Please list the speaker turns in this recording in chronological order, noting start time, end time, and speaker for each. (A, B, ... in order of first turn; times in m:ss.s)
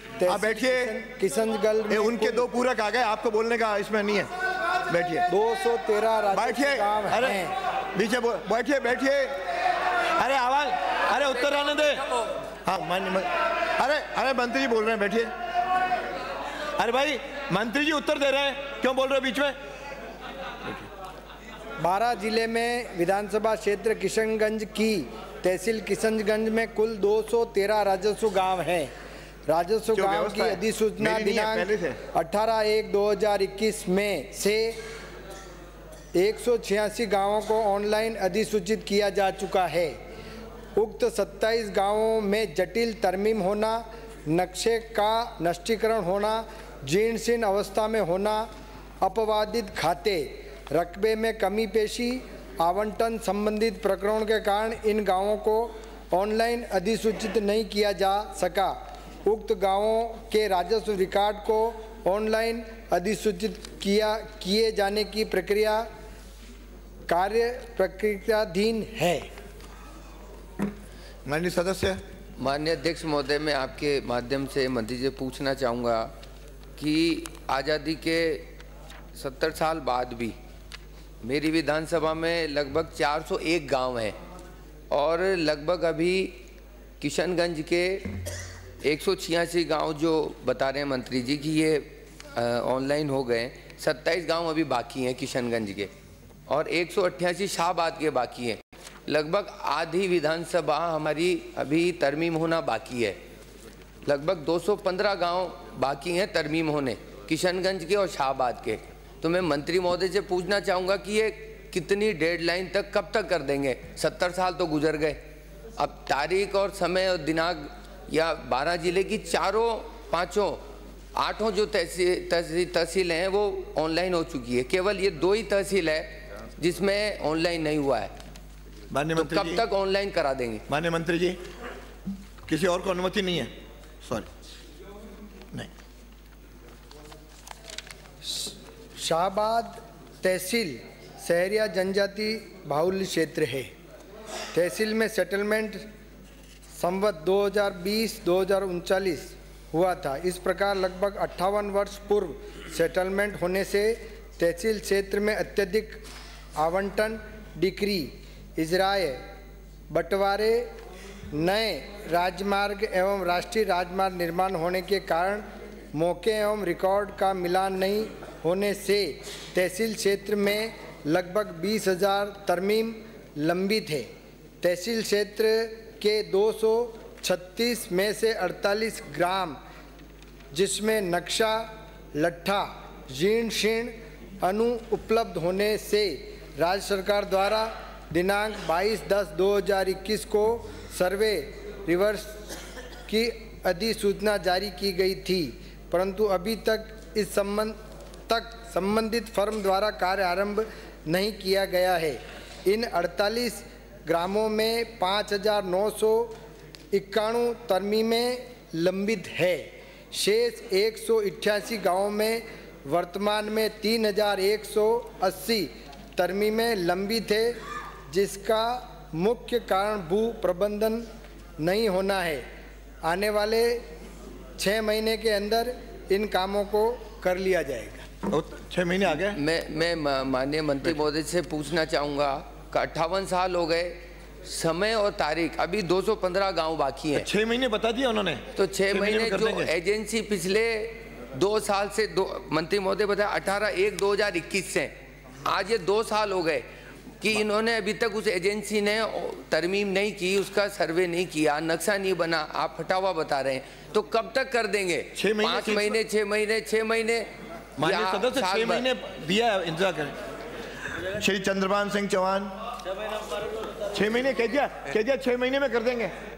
0:00.2-0:02.5 A
0:00.3-0:01.0 B
0:01.9-0:04.3 B
0:04.9-0:05.3 B
0:05.3-0:07.5 A
0:06.3-0:09.4 B
0:10.2-0:12.1 B
0:12.7-0:15.3 B
0:16.8-0:19.6 B
0:21.8-0:28.9 A
0:29.5-0:34.8 A
0:29.9-0:32.0 B
0:36.2-0:40.0 A
0:40.8-0:48.5 A
0:49.0-1:05.9 A
1:07.1-1:09.3 A
1:11.2-1:12.0 B
1:12.4-1:16.1 C
1:16.8-1:18.5 C
1:19.2-1:20.4 C
1:21.2-1:24.2 C
1:24.9-1:26.4 C
1:27.0-1:35.9 C
1:36.5-1:43.2 C
1:44.1-1:55.2 C
1:55.8-2:00.6 C
2:01.2-2:08.1 C
2:08.9-2:09.6 B
2:09.2-2:10.6 C
2:10.7-2:11.4 B
2:12.5-2:13.5 B
2:14.0-2:14.3 B
2:18.2-2:23.7 A
2:24.5-2:25.8 A
2:26.8-2:36.0 A
2:36.6-2:39.2 A
2:39.9-2:40.7 A
2:41.3-2:54.1 A
2:54.6-2:59.6 A
3:00.5-3:12.4 A
3:13.1-3:17.8 A
3:18.3-3:26.3 A
3:26.9-3:37.6 A
3:38.1-3:41.1 A
3:41.6-3:42.4 A
3:43.0-3:43.8 A
3:44.6-3:48.0 A
3:48.3-3:49.4 B
3:49.2-3:57.3 C
3:57.1-3:59.7 B
3:58.6-4:04.9 C
4:05.4-4:06.6 C
4:07.2-4:17.3 C
4:15.2-4:16.0 B
4:17.8-4:20.2 B
4:17.8-4:18.9 C
4:21.1-4:22.6 B
4:23.9-4:26.1 B